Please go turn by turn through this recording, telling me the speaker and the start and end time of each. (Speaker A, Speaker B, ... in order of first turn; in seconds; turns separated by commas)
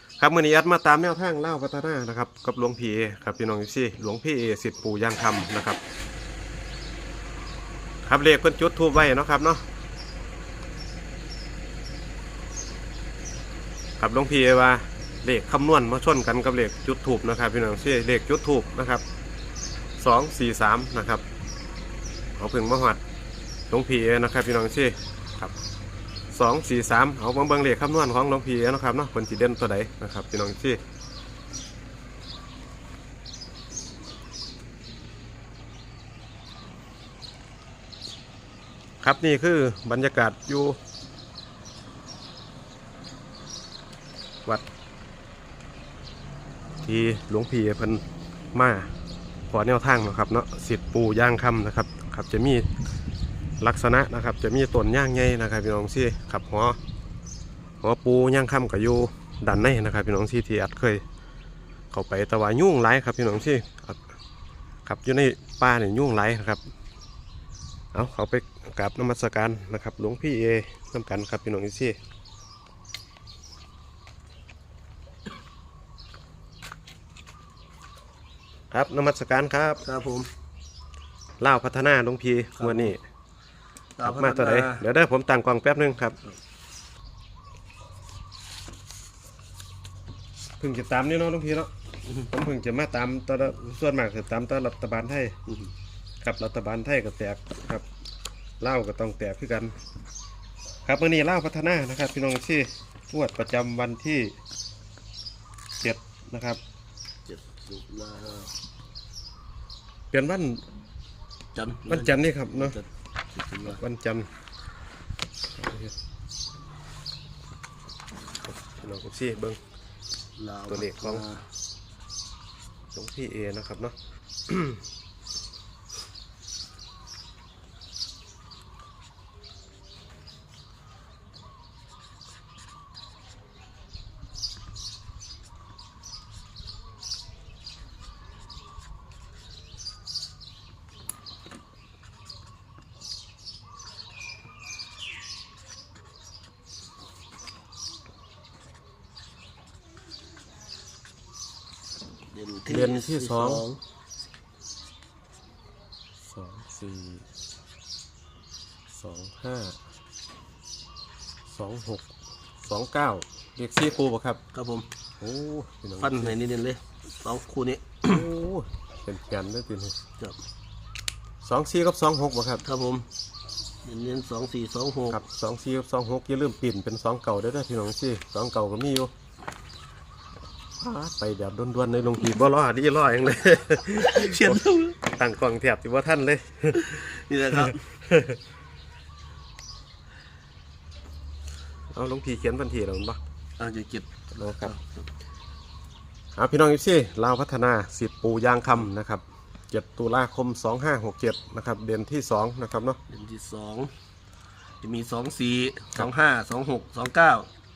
Speaker A: 0.2-5.8, Speaker A: 8.0-9.6, Speaker A: 14.0-19.0, Speaker A: 20.0-21.2, Speaker A: 22.4-23.0, Speaker A: 23.7-25.5, Speaker A: 26.3-30.8, Speaker A: 39.0-40.8, Speaker A: 46.8-48.0, Speaker A: 48.5-48.9, Speaker A: 49.5-52.7, Speaker A: 53.6-56.8, Speaker A: 57.8-61.0, Speaker A: 61.9-64.0, Speaker A: 64.8-66.6, Speaker A: 67.9-72.0, Speaker A: 78.7-79.8, Speaker B: 79.8-80.3, Speaker A: 81.4-83.0, Speaker B: 82.6-82.9, Speaker B: 84.0-84.8, Speaker A: 84.0-86.2, Speaker A: 90.6-95.4, Speaker A: 96.2-97.8, Speaker A: 98.6-99.7, Speaker A: 100.8-104.3, Speaker A: 105.8-106.6, Speaker B: 107.2-108.5, Speaker A: 110.1-110.6, Speaker B: 111.5-113.8, Speaker A: 111.9-112.8, Speaker A: 113.6-114.3, Speaker A: 115.6-115.9, Speaker A: 118.5-119.6, Speaker B: 120.4-121.5, Speaker A: 120.7-121.2, Speaker A: 122.9-123.9, Speaker A: 124.5-124.8, Speaker B: 152.3-153.8, Speaker A: 152.7-153.7, Speaker A: 156.2-157.2, Speaker A: 158.9-159.8, Speaker A: 161.5-162.1, Speaker A: 162.6-164.4, Speaker B: 164.5-164.9, Speaker A: 165.2-166.4, Speaker B: 166.0-168.2, Speaker A: 168.0-169.9, Speaker A: 171.4-172.6, Speaker B: 172.6-173.1, Speaker B: 173.8-175.2, Speaker A: 175.1-179.1, Speaker A: 180.8-187.0, Speaker B: 184.0-185.0, Speaker B: 186.7-187.8, Speaker A: 187.6-188.4, Speaker A: 191.9-193.2, Speaker B: 193.6-195.0, Speaker A: 194.4-194.7, Speaker A: 196.3-203.0, Speaker B: 203.1-203.9, Speaker B: 204.8-207.5